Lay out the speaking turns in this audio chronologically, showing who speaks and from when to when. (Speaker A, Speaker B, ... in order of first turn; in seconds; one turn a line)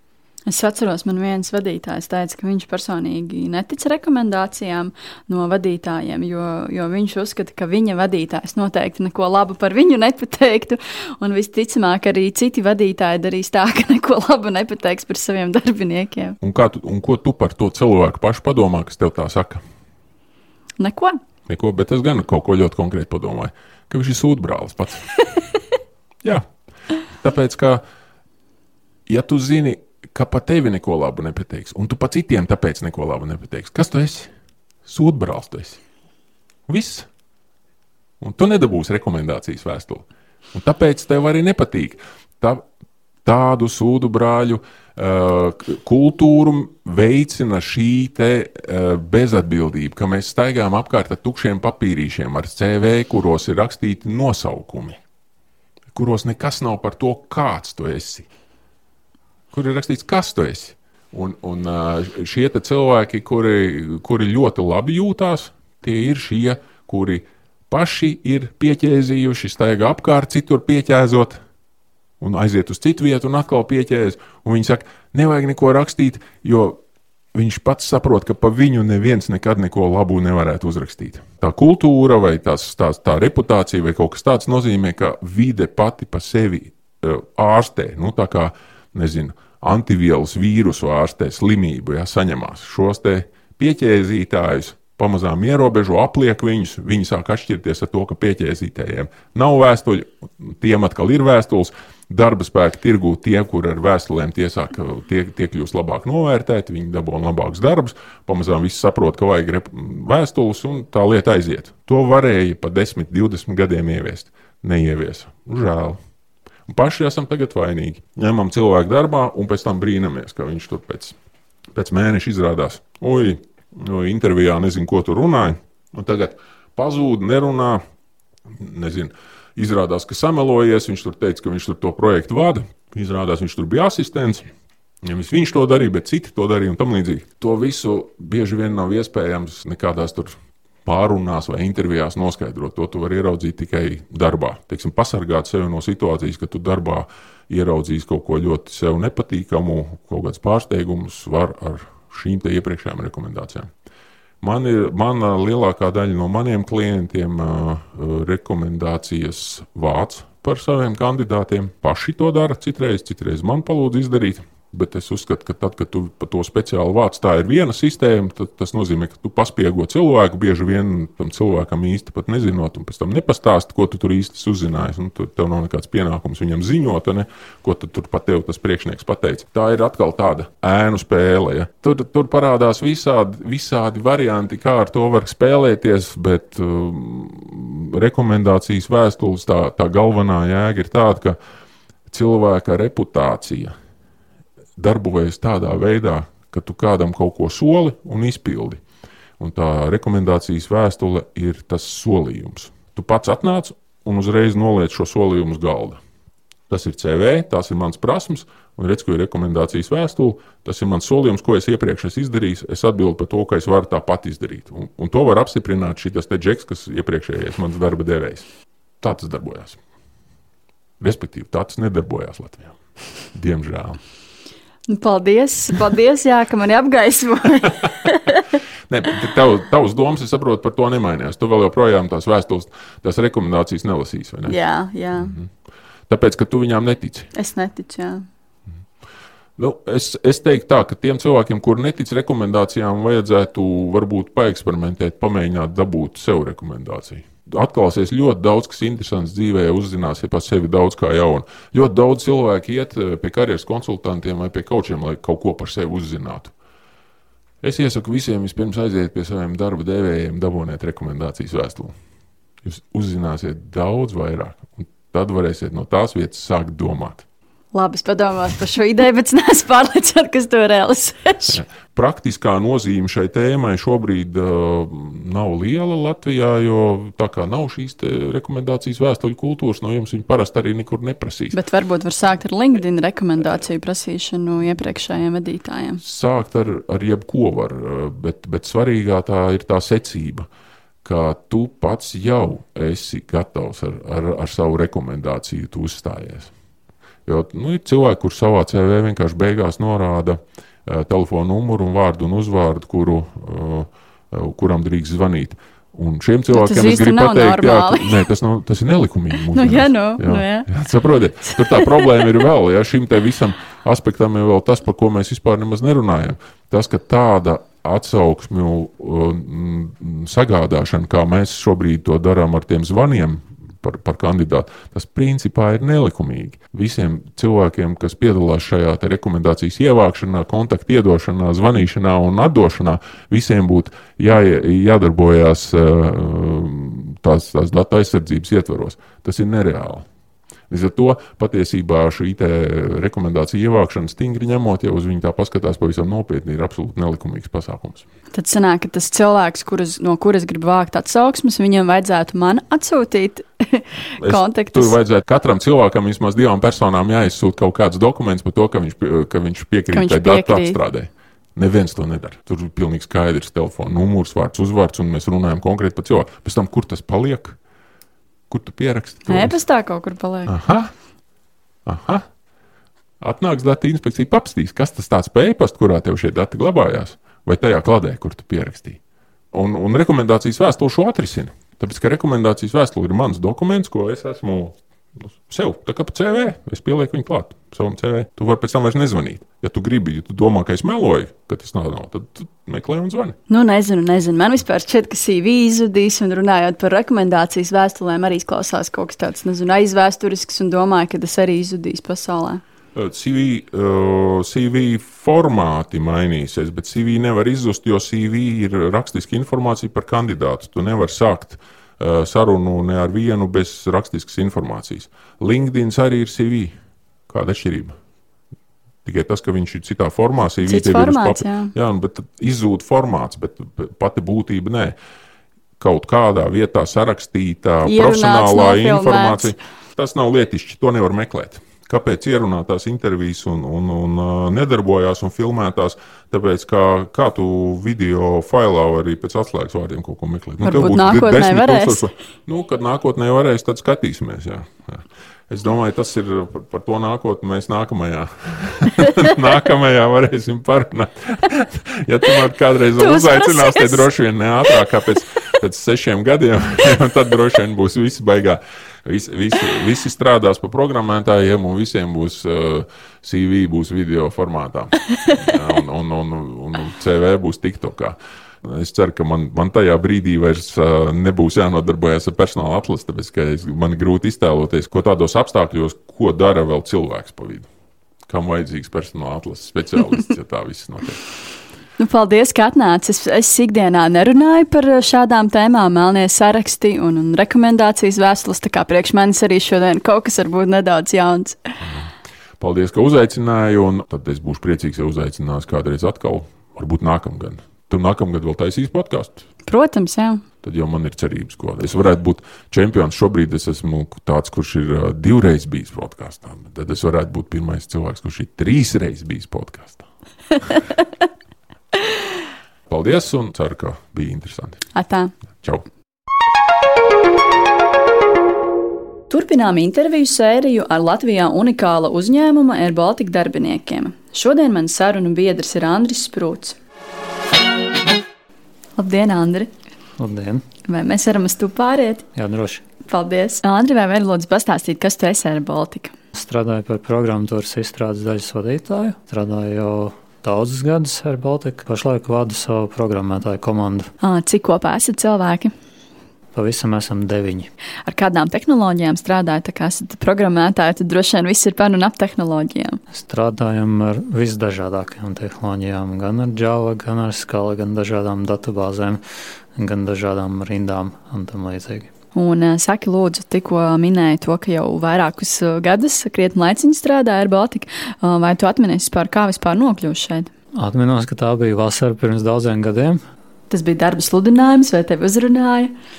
Speaker A: 0.5-16.4
Speaker B: 16.4-19.6
Speaker A: 20.8-21.2
Speaker B: 21.5-25.0
Speaker B: 27.1-27.8
Speaker B: 29.1-34.3
Speaker B: 34.8-35.8
Speaker B: 36.7-37.1
Speaker B: 38.2-42.6
Speaker B: 43.2-55.0
Speaker B: 55.9-58.3
Speaker B: 59.5-71.4
Speaker B: 72.2-76.8
Speaker B: 77.3-116.0
Speaker B: 116.7-121.2
Speaker B: 121.7-127.8
Speaker B: 128.5-134.5
Speaker B: 135.0-153.7
Speaker B: 154.4-191.3
Speaker B: 192.1-193.7
Speaker B: 194.8-198.8
Speaker B: 199.4-206.0
Speaker B: 206.7-218.4
Speaker B: 219.0-219.8
Speaker B: 221.0-222.8
Speaker B: 223.3-224.0
Speaker A: 224.9-228.5
Speaker B: 228.9-234.6
Speaker A: 234.5-235.3
Speaker B: 235.2-235.5
Speaker B: 236.1-237.3
Speaker A: 237.3-238.2
Speaker B: 239.6-256.5
Speaker B: 257.6-261.9
Speaker B: 262.6-267.2
Speaker A: 267.7-271.6
Speaker B: 271.5-281.6
Speaker A: 281.5-286.0
Speaker B: 286.0-290.5
Speaker B: 291.0-296.5
Speaker B: 297.2-340.1
Speaker A: 306.5-308.2
Speaker A: 309.5-310.7
Speaker A: 311.6-312.1
Speaker B: 340.7-348.1
Speaker A: 348.3-354.9
Speaker B: 354.2-367.6
Speaker A: 359.9-360.8
Speaker B: 368.5-369.6
Speaker A: 369.3-370.6
Speaker B: 370.5-370.9
Speaker B: 371.8-372.3
Speaker B: 373.2-379.0
Speaker B: 379.5-393.4
Speaker A: 393.5-402.6
Speaker B: 402.9-416.7
Speaker B: 417.3-417.9
Speaker B: 419.0-424.9
Speaker A: 420.6-421.7
Speaker B: 425.8-477.7
Speaker A: 427.8-429.5
Speaker A: 440.6-442.1
Speaker A: 453.0-454.1
Speaker B: 478.3-481.2
Speaker A: 482.0-491.7
Speaker B: 491.8-492.1
Speaker B: 492.6-499.4
Speaker A: 499.7-500.4
Speaker B: 500.6-510.1
Speaker B: 512.9-514.8
Speaker A: 515.0-515.3
Speaker A: 519.3-526.8
Speaker A: 529.0-529.7
Speaker C: 530.2-530.6
Speaker A: 530.9-532.2
Speaker C: 532.3-532.8
Speaker A: 533.1-536.1
Speaker C: 536.3-544.1
Speaker A: 544.2-545.7
Speaker C: 546.5-547.7
Speaker A: 548.0-553.0
Speaker C: 553.1-559.2
Speaker C: 559.8-562.1
Speaker A: 562.3-570.5
Speaker C: 570.8-573.2
Speaker A: 573.7-575.9